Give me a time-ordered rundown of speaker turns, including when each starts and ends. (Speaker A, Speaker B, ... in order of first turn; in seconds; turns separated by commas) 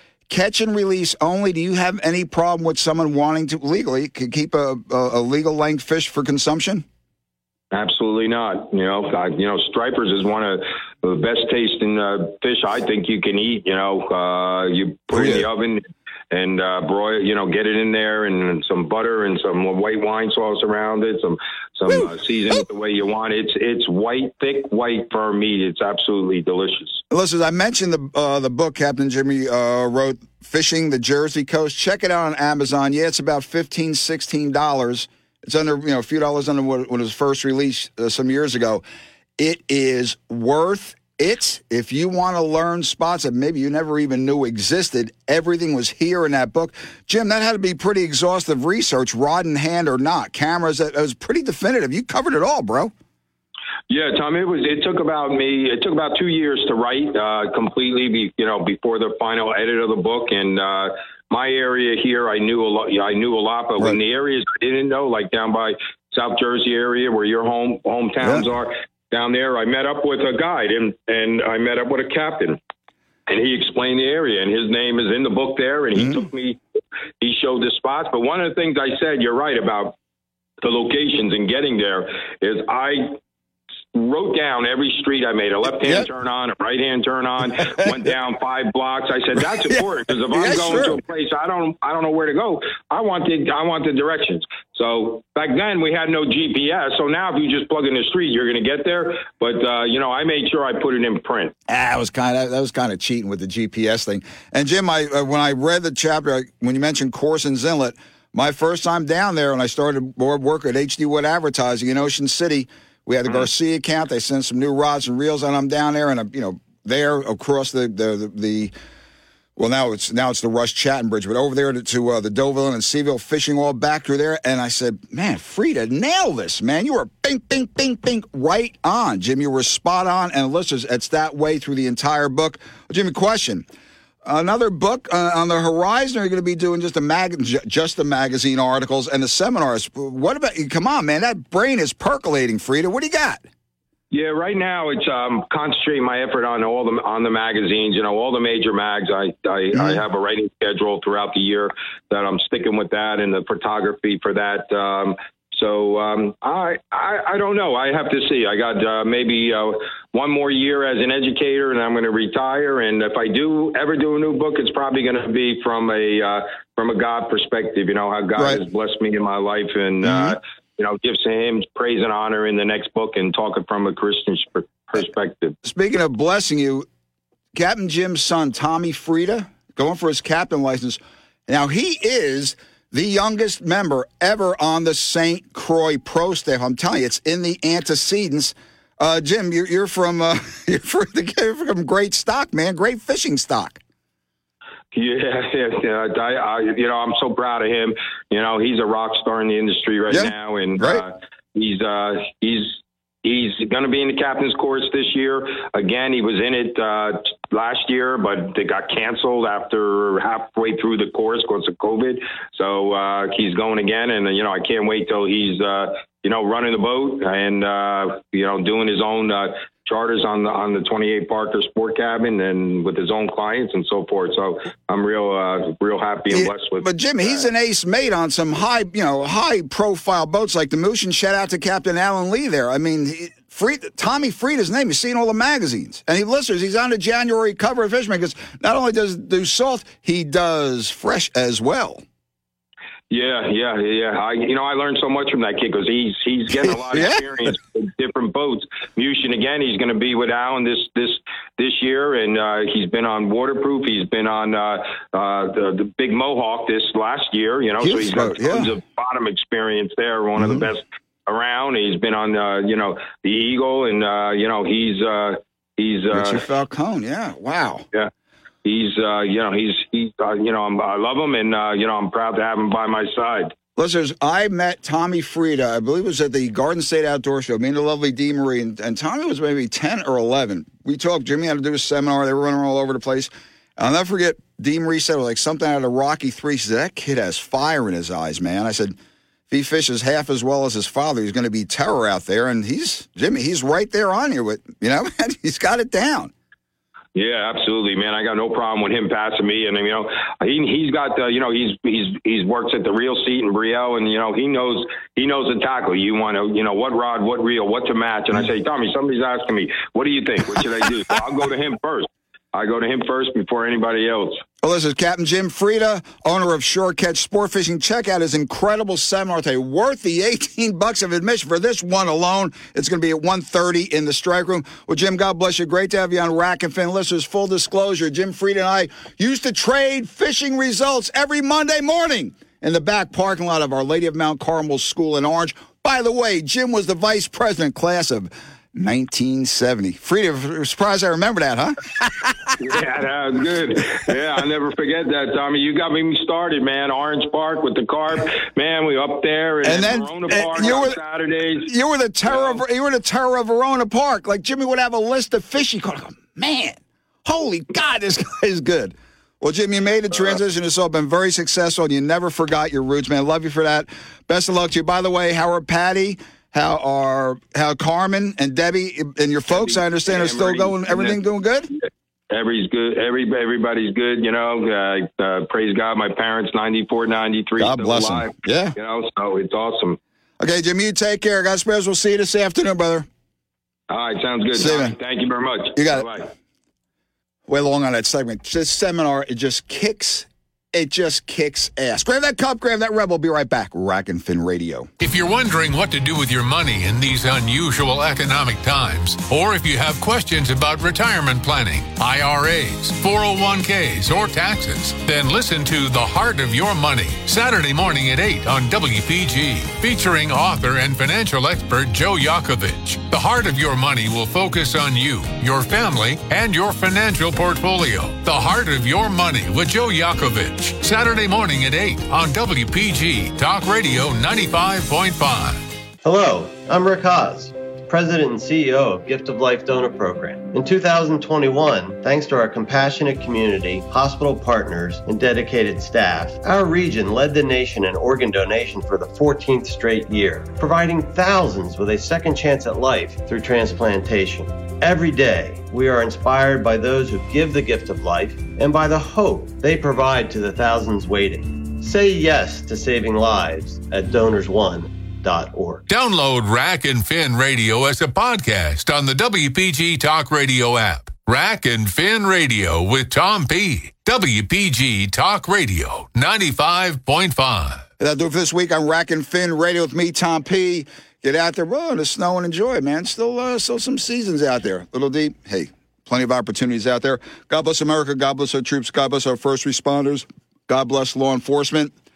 Speaker A: 0.3-6.8, Speaker B: 7.7-27.0, Speaker A: 15.1-15.5, Speaker A: 27.1-38.8, Speaker A: 39.4-52.9, Speaker B: 53.9-72.6, Speaker B: 73.3-76.6, Speaker A: 76.0-76.2, Speaker B: 77.2-80.0, Speaker B: 80.6-83.2, Speaker B: 83.9-101.5, Speaker A: 89.7-91.0, Speaker A: 101.7-118.7, Speaker A: 119.6-133.6, Speaker A: 134.2-143.4, Speaker B: 144.1-175.6, Speaker A: 170.0-170.4, Speaker A: 175.6-176.9, Speaker A: 177.5-193.8, Speaker B: 194.9-227.4, Speaker A: 200.1-201.1, Speaker A: 226.3-242.0, Speaker B: 243.1-266.4, Speaker A: 246.9-247.2, Speaker A: 257.8-258.7, Speaker A: 260.4-260.7, Speaker A: 266.1-267.9, Speaker B: 268.6-273.5, Speaker A: 273.8-289.0, Speaker A: 289.5-296.3, Speaker B: 297.1-314.4, Speaker A: 314.6-342.5, Speaker B: 342.6-351.7, Speaker A: 349.6-351.0, Speaker A: 351.6-371.7, Speaker B: 369.5-371.2, Speaker B: 371.7-380.0, Speaker A: 377.6-378.8, Speaker A: 380.4-383.1, Speaker B: 383.9-386.3, Speaker A: 384.5-384.9, Speaker A: 385.8-386.1, Speaker A: 387.5-394.9, Speaker C: 395.0-425.6, Speaker D: 426.0-455.9, Speaker C: 455.9-467.9, Speaker A: 468.0-481.9